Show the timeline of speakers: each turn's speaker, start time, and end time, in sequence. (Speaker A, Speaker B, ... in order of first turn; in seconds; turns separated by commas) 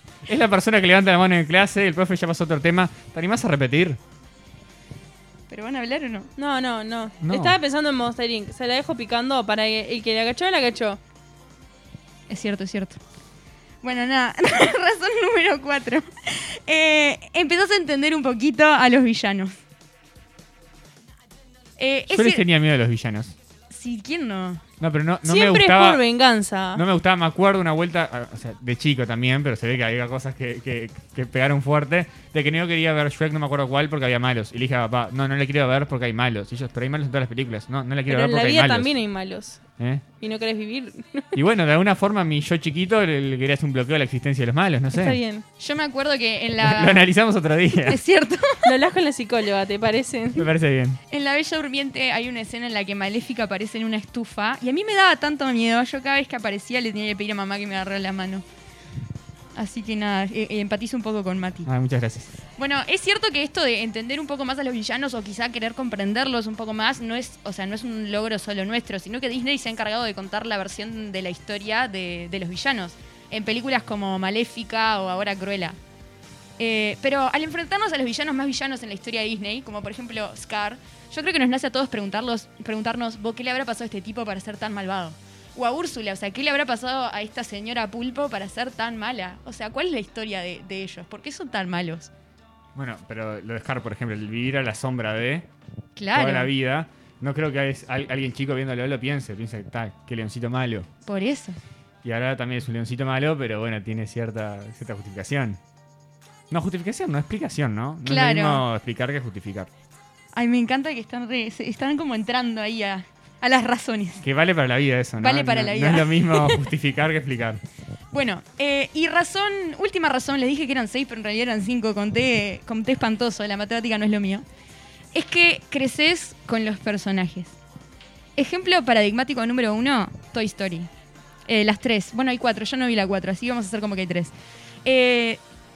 Speaker A: 0.3-4.0, Speaker B: 5.5-6.3, Speaker C: 6.4-11.0, Speaker A: 7.2-7.6, Speaker B: 12.3-13.0, Speaker B: 13.8-19.5, Speaker B: 21.8-22.4, Speaker A: 22.1-23.4, Speaker B: 23.7-24.6, Speaker A: 24.8-26.0, Speaker C: 25.2-26.8, Speaker A: 26.7-38.9, Speaker C: 38.1-39.6, Speaker C: 40.2-41.4, Speaker A: 41.3-45.2, Speaker C: 44.9-45.4, Speaker B: 45.6-47.1, Speaker A: 46.6-48.0, Speaker B: 47.9-48.8, Speaker C: 48.6-50.5, Speaker A: 50.4-51.0, Speaker B: 51.1-58.4, Speaker B: 59.5-61.7, Speaker A: 61.6-62.3, Speaker B: 62.6-75.8, Speaker B: 76.6-92.1, Speaker A: 92.8-95.5, Speaker B: 96.0-96.5, Speaker A: 96.1-100.9, Speaker B: 101.1-101.6, Speaker A: 102.0-105.6, Speaker A: 106.5-109.7, Speaker B: 108.0-108.7, Speaker B: 110.3-114.2, Speaker A: 114.2-117.6, Speaker B: 115.2-116.6, Speaker B: 118.1-124.4, Speaker B: 125.1-127.5, Speaker B: 128.4-130.9, Speaker B: 131.5-134.3, Speaker B: 134.8-135.4